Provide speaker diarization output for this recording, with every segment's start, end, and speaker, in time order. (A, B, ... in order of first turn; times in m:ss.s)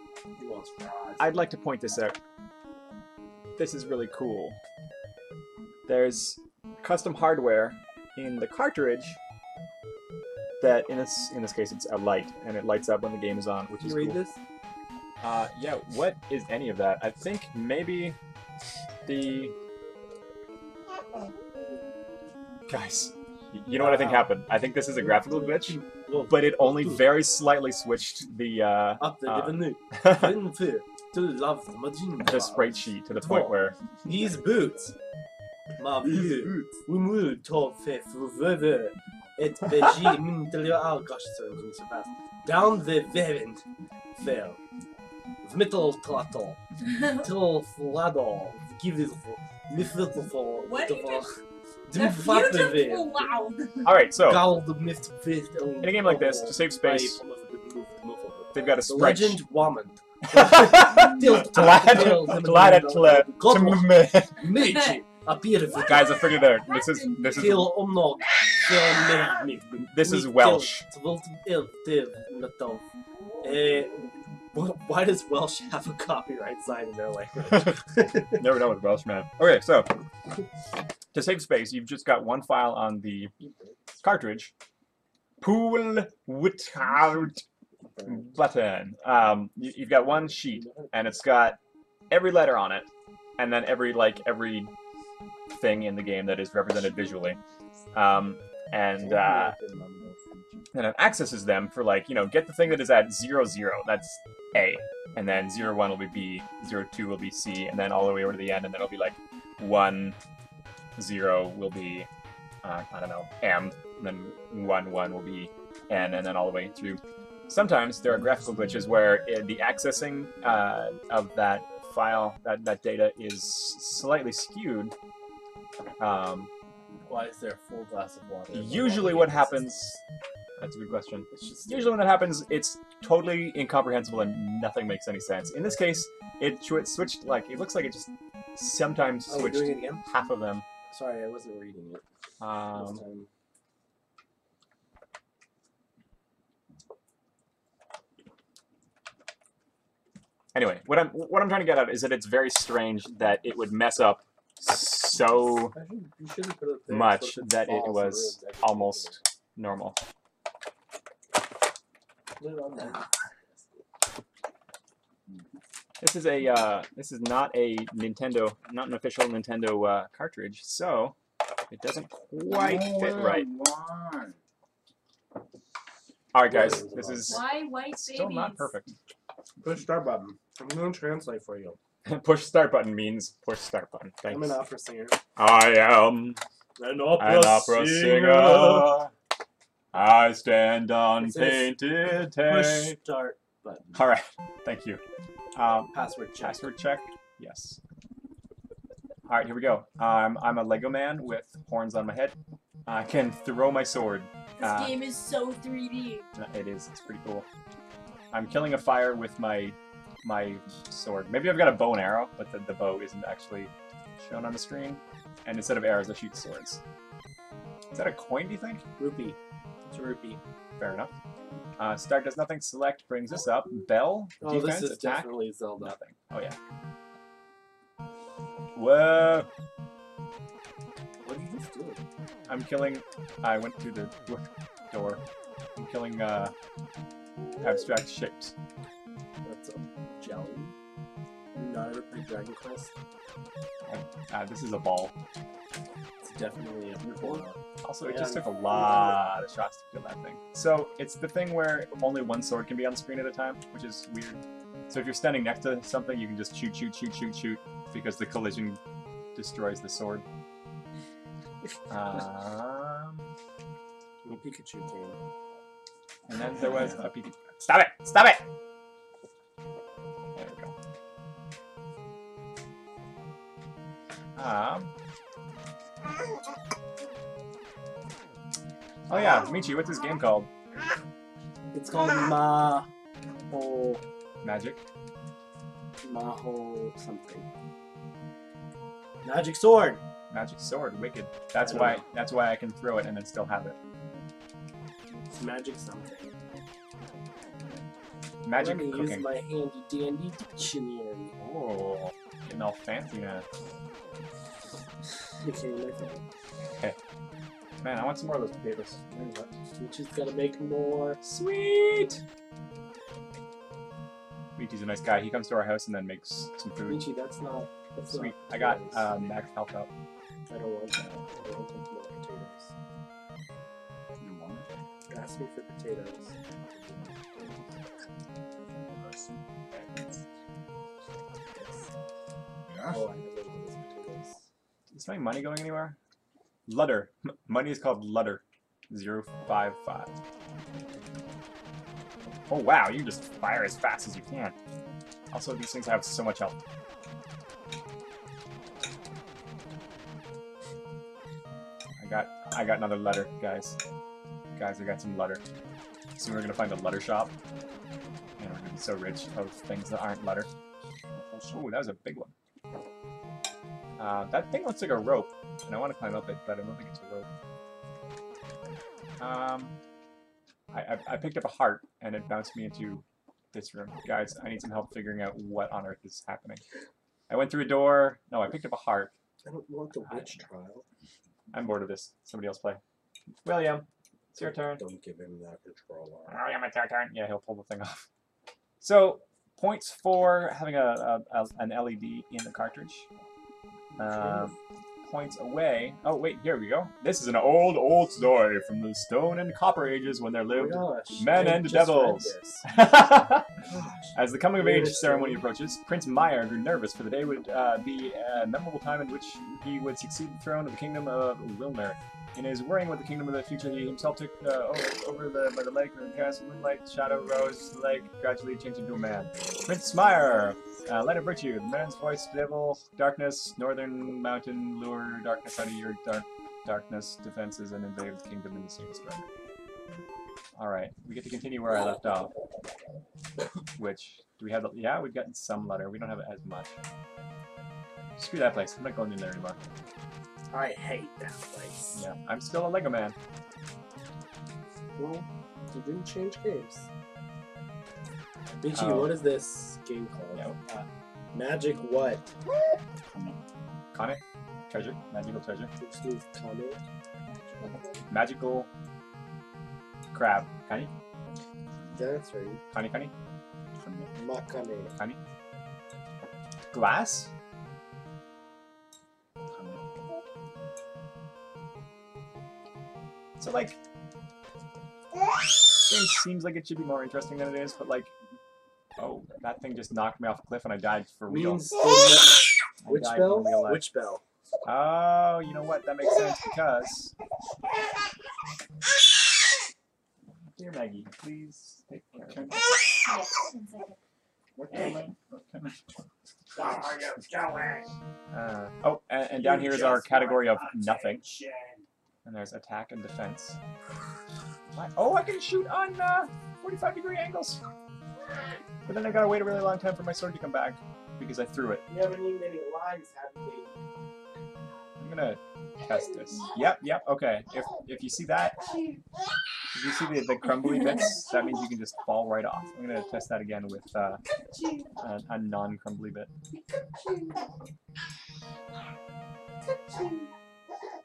0:00.4-0:01.4 A
0:01.2-0:02.2 B
0:03.6-0:04.6 B
0:05.9-0:09.2 B
0:10.6-0:14.2 B
0:13.8-0:14.4 A
0:15.2-0:18.2 B
0:19.0-0:19.6 B
0:22.7-0:30.2 B
0:23.7-0:27.1 A
0:29.0-0:34.9 A
0:32.2-0:33.8 B
0:35.8-0:43.6 A
0:36.0-0:36.6 C
0:44.2-0:44.6 A
0:45.4-0:46.6 A
0:47.1-0:53.3 A
0:50.6-0:51.3 D
0:51.9-0:53.9 D
0:53.8-0:54.5 B
0:54.1-1:06.3 A
0:55.8-0:57.2 B
0:58.5-0:59.4 B
1:00.3-1:04.5 B
1:04.6-1:05.0 D
1:05.8-1:07.7 B
1:06.4-1:07.7 D
1:07.4-1:12.8 A
1:09.8-1:10.8 B
1:13.4-1:14.0 A
1:14.5-1:18.4 A
1:17.5-1:17.8 B
1:18.3-1:19.9 B
1:21.1-1:23.3 B
1:23.4-1:23.8 A
1:24.0-1:24.5 B
1:25.4-1:27.4 B
1:27.9-1:28.4 A
1:28.0-1:31.6 B
1:30.0-1:31.2 A
1:32.1-1:34.7 B
1:35.5-1:37.4 B
1:37.9-1:39.6 B
1:39.0-1:40.3 A
1:39.9-1:40.6 C
1:40.7-1:50.2 B
1:51.0-1:52.1 B
1:52.6-2:04.9 B
2:06.0-2:06.5 B
2:07.1-2:10.0 A
2:08.5-2:10.0 B
2:10.6-2:20.6 B
2:11.3-2:12.2 A
2:19.3-2:20.0 A
2:20.9-2:22.0 A
2:22.4-2:23.0 B
2:22.7-2:23.3 A
2:30.5-2:35.8 B
2:35.5-2:39.2 A
2:36.9-2:40.0 B
2:42.4-2:43.8 A
2:46.0-2:51.2 B
2:51.7-2:53.5 B
2:52.5-2:54.4 C
2:56.3-2:58.9 B
2:56.4-2:57.4 A
2:57.3-2:58.7 D
2:59.6-3:01.8 A
3:02.0-3:04.6 B
3:04.3-3:05.2 A
3:05.4-3:06.4 B
3:06.8-3:09.0 A
3:07.2-3:09.1 B
3:09.9-3:13.0 B
3:11.2-3:14.0 A
3:13.9-3:15.0 B
3:15.5-3:17.8 B
3:15.9-3:16.7 A
3:19.3-3:25.0 B
3:24.6-3:26.3 D
3:26.3-3:27.4 B
3:28.3-3:36.8 B
3:37.9-3:38.8 B
3:39.0-3:40.4 A
3:40.8-3:41.1 B
3:41.8-3:46.6 B
3:44.4-3:46.0 A
3:48.7-3:49.5 B
3:51.2-3:52.0 A
3:52.5-3:55.2 B
3:55.8-3:56.5 B
3:57.6-3:58.5 B
3:59.4-4:00.7 A
4:01.5-4:02.9 A
4:03.8-4:05.1 B
4:06.2-4:09.2 A
4:07.0-4:07.4 C
4:07.8-4:18.8 B
4:19.3-4:20.2 B
4:21.9-4:23.3 B
4:24.2-4:25.2 A
4:26.3-4:28.4 B
4:30.3-4:30.7 B
4:34.4-4:34.9 B
4:39.1-4:40.5 B
4:41.7-4:42.9 A
4:43.5-4:44.0 A
4:44.4-4:44.8 B
4:46.0-4:47.5 A
4:49.2-4:50.0 A
4:50.3-4:53.8 B
4:51.6-4:52.0 A
4:55.3-4:56.4 A
4:58.4-4:59.3 B
4:58.5-5:01.3 A
5:01.4-5:03.4 B
5:05.4-5:06.2 A
5:07.8-5:09.5 B
5:09.8-5:11.2 A
5:11.2-5:12.2 B
5:14.6-5:17.1 B
5:16.8-5:19.1 A
5:18.1-5:19.9 B
5:20.5-5:22.7 A
5:24.2-5:24.7 C
5:25.1-5:26.3 A
5:26.9-5:27.6 C
5:28.8-5:29.5 C
5:31.5-5:31.9 A
5:32.6-5:33.0 C
5:32.8-5:34.4 A
5:34.9-5:36.0 B
5:36.7-5:40.1 B
5:42.5-5:44.5 B
5:45.3-5:46.6 B
5:52.0-5:53.8 B
5:54.5-5:55.4 B
5:56.2-5:57.3 B
5:58.4-6:00.5 B
6:01.4-6:02.3 B
6:04.0-6:07.3 B
6:09.2-6:09.7 B
6:10.7-6:16.6 B
6:17.3-6:19.1 B
6:19.4-6:20.8 A
6:20.0-6:20.4 B
6:21.5-6:22.8 B
6:23.4-6:24.8 B
6:24.3-6:26.4 A
6:26.3-6:28.0 B
6:28.8-6:33.1 B
6:34.0-6:34.5 A
6:34.0-6:43.5 B
6:40.5-6:42.6 A
6:43.6-6:45.4 A
6:44.1-7:09.2 B
7:10.6-7:12.3 B
7:13.8-7:16.8 B
7:18.2-7:19.6 B
7:20.5-7:22.0 A
7:21.9-7:23.2 B
7:25.0-7:26.9 A
7:28.6-7:30.5 A
7:28.7-7:29.1 B
7:30.3-7:30.8 B
7:31.3-7:32.3 A
7:33.1-7:33.4 C
7:33.9-7:35.7 B
7:35.8-7:36.8 A
7:37.3-7:38.0 D
7:38.1-7:38.7 B
7:40.1-7:40.9 B
7:41.8-7:42.1 C
7:41.9-7:42.6 A
7:42.7-7:43.1 B
7:43.8-7:44.3 C
7:44.2-7:44.9 A
7:46.7-7:47.3 B
7:49.5-7:49.9 C
7:53.4-7:53.8 B
7:55.8-7:58.1 B
7:59.0-8:01.7 B
8:01.3-8:04.2 A
8:02.8-8:03.8 B
8:04.6-8:07.1 B
8:10.5-8:12.6 B
8:12.1-8:12.6 C
8:13.0-8:14.0 D
8:14.6-8:15.8 C
8:17.2-8:17.7 A
8:18.3-8:21.2 B
8:19.8-8:20.5 A
8:21.4-8:21.8 A
8:22.2-8:23.6 B
8:24.7-8:27.6 B
8:28.8-8:31.8 B
8:31.9-8:33.8 A
8:35.0-8:38.6 B
8:39.7-8:44.2 B
8:45.0-8:46.3 B